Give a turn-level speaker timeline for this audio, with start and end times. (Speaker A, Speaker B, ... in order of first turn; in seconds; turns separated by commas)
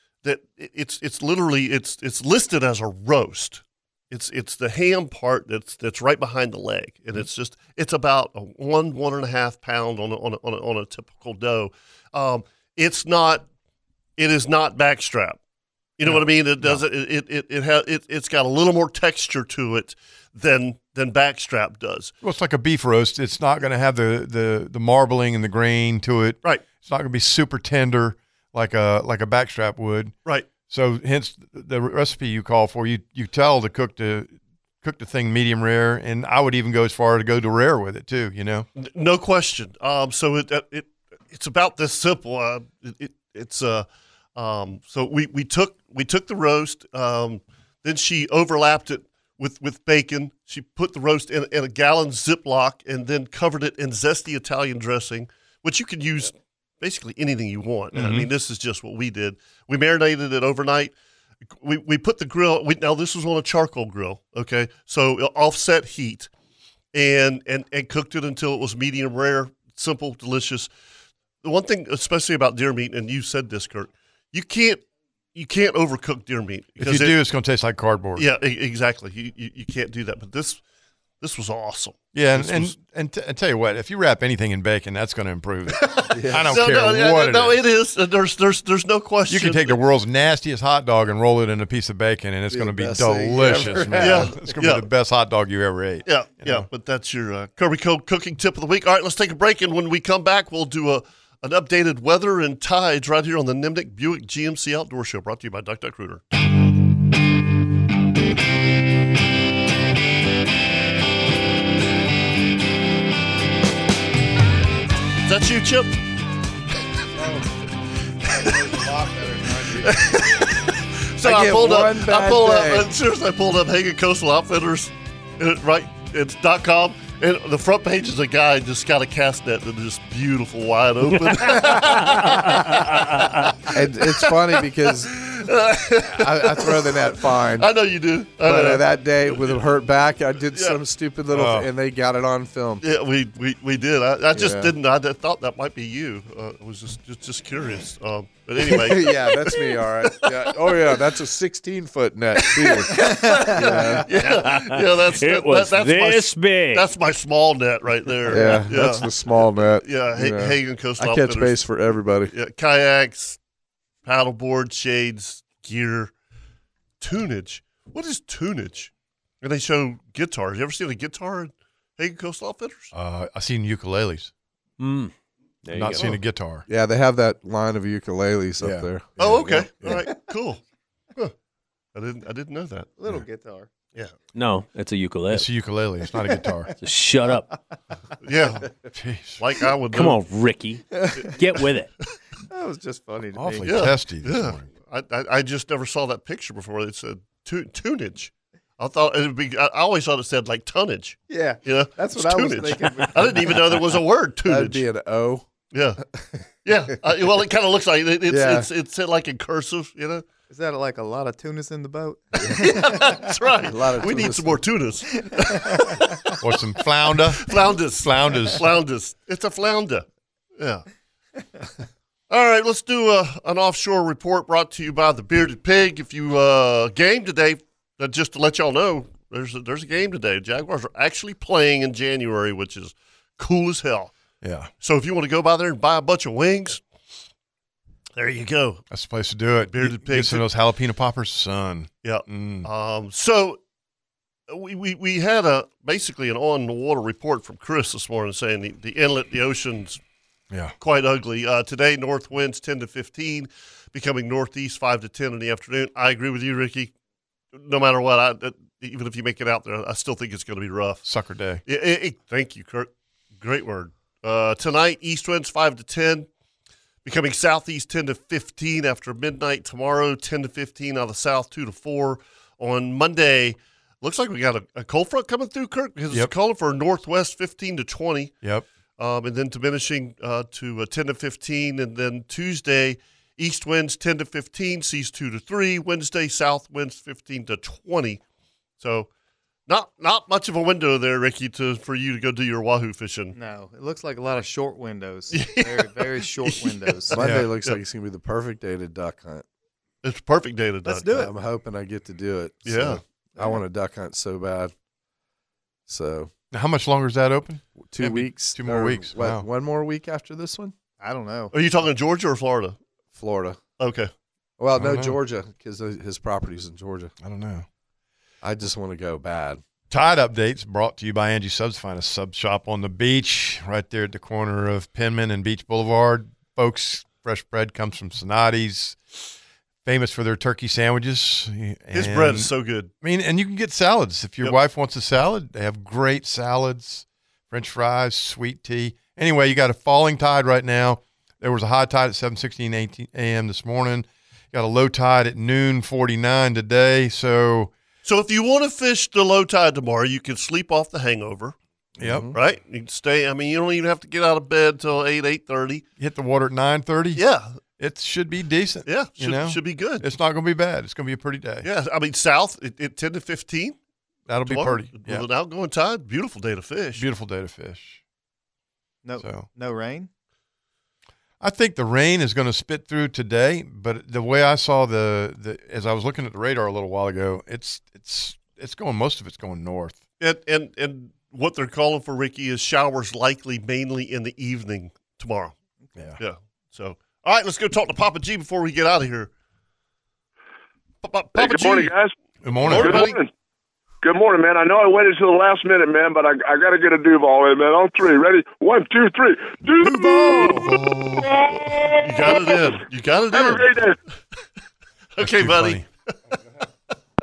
Speaker A: 0.2-13.4, Speaker A: 14.2-15.4, Speaker A: 16.0-22.1, Speaker B: 16.1-16.8, Speaker B: 22.2-30.1, Speaker B: 30.7-38.7, Speaker A: 38.8-60.9, Speaker B: 57.9-58.3, Speaker A: 61.6-66.3, Speaker A: 66.9-70.7, Speaker A: 71.4-74.8, Speaker A: 75.3-77.2, Speaker B: 76.8-78.2, Speaker A: 78.2-80.6, Speaker A: 81.2-82.8, Speaker B: 82.1-87.6, Speaker A: 85.7-89.8, Speaker C: 86.1-86.6, Speaker B: 89.3-96.7, Speaker C: 92.5-94.5, Speaker A: 94.0-94.9, Speaker A: 96.1-106.2, Speaker A: 115.3-116.0, Speaker C: 117.2-117.5, Speaker C: 118.2-120.5, Speaker A: 118.3-118.8, Speaker A: 119.7-139.6, Speaker C: 121.2-122.9, Speaker C: 133.7-135.2, Speaker C: 136.0-137.7, Speaker C: 138.4-142.8, Speaker A: 140.5-140.8, Speaker B: 141.3-141.7, Speaker A: 142.8-150.9, Speaker C: 144.3-144.7, Speaker C: 148.6-154.1, Speaker A: 152.4-161.6, Speaker D: 152.9-154.0, Speaker E: 154.2-156.9, Speaker C: 158.3-162.3, Speaker A: 162.3-163.4, Speaker A: 164.1-166.1, Speaker A: 167.0-168.9, Speaker A: 169.4-172.9, Speaker B: 172.9-174.3, Speaker E: 174.8-175.1, Speaker E: 175.6-176.2, Speaker B: 175.7-176.7, Speaker C: 176.7-180.0, Speaker B: 178.6-178.9, Speaker A: 179.2-180.6, Speaker A: 181.9-182.9, Speaker D: 183.0-183.7, Speaker E: 184.3-185.5, Speaker B: 185.3-186.7, Speaker E: 186.8-187.4, Speaker A: 188.2-188.7, Speaker B: 188.9-189.4, Speaker A: 189.4-190.2, Speaker E: 189.9-191.9, Speaker D: 190.9-191.3, Speaker D: 192.5-193.8, Speaker B: 193.4-194.7, Speaker A: 193.7-204.8, Speaker D: 201.3-203.8, Speaker C: 204.4-205.5, Speaker A: 205.7-206.0, Speaker C: 206.2-206.4, Speaker A: 206.7-210.2, Speaker C: 208.3-208.7, Speaker D: 210.5-213.2, Speaker A: 212.4-216.3, Speaker C: 213.6-214.6, Speaker D: 215.3-216.3, Speaker B: 216.4-218.7, Speaker A: 217.2-220.1, Speaker A: 220.6-220.9, Speaker A: 222.3-234.1, Speaker B: 234.4-234.7, Speaker A: 234.8-236.8, Speaker A: 238.2-238.8, Speaker B: 238.9-242.7, Speaker A: 239.7-240.4, Speaker A: 242.0-243.6, Speaker A: 244.5-250.0, Speaker A: 250.8-256.9, Speaker A: 257.5-261.1, Speaker B: 261.1-261.6, Speaker A: 261.6-266.3, Speaker A: 267.1-278.4, Speaker A: 279.0-288.2, Speaker A: 288.8-289.1, Speaker A: 289.7-293.4, Speaker D: 293.3-297.2, Speaker A: 295.3-297.8, Speaker C: 297.1-299.4, Speaker B: 297.2-297.5, Speaker A: 300.0-301.3, Speaker D: 300.9-301.3, Speaker C: 301.1-304.7, Speaker A: 302.6-303.0, Speaker C: 305.9-306.3, Speaker B: 306.5-309.4, Speaker C: 307.8-310.7, Speaker D: 311.0-311.5, Speaker A: 311.5-312.8, Speaker C: 313.1-313.6, Speaker A: 313.8-314.1, Speaker C: 314.6-317.1, Speaker B: 314.7-315.1, Speaker B: 317.2-317.6, Speaker C: 318.4-319.6, Speaker B: 319.9-329.0, Speaker B: 329.9-332.5, Speaker A: 331.9-332.9, Speaker B: 333.0-347.7, Speaker A: 348.0-351.6, Speaker C: 352.0-352.4, Speaker B: 352.0-352.3, Speaker A: 352.3-355.8, Speaker B: 356.0-357.2, Speaker A: 357.2-357.6, Speaker B: 357.8-361.7, Speaker A: 358.9-360.1, Speaker A: 361.6-363.8, Speaker B: 364.3-365.3, Speaker A: 364.4-367.1, Speaker B: 367.0-368.0, Speaker D: 369.0-370.1, Speaker B: 369.2-369.4, Speaker B: 371.4-380.0, Speaker A: 380.2-385.6, Speaker A: 386.2-389.3, Speaker A: 391.0-391.9, Speaker F: 391.3-392.1, Speaker B: 392.4-393.1, Speaker A: 392.6-393.2, Speaker F: 392.6-393.3, Speaker F: 394.0-404.0, Speaker A: 400.2-403.8, Speaker A: 405.2-405.9, Speaker B: 405.2-405.8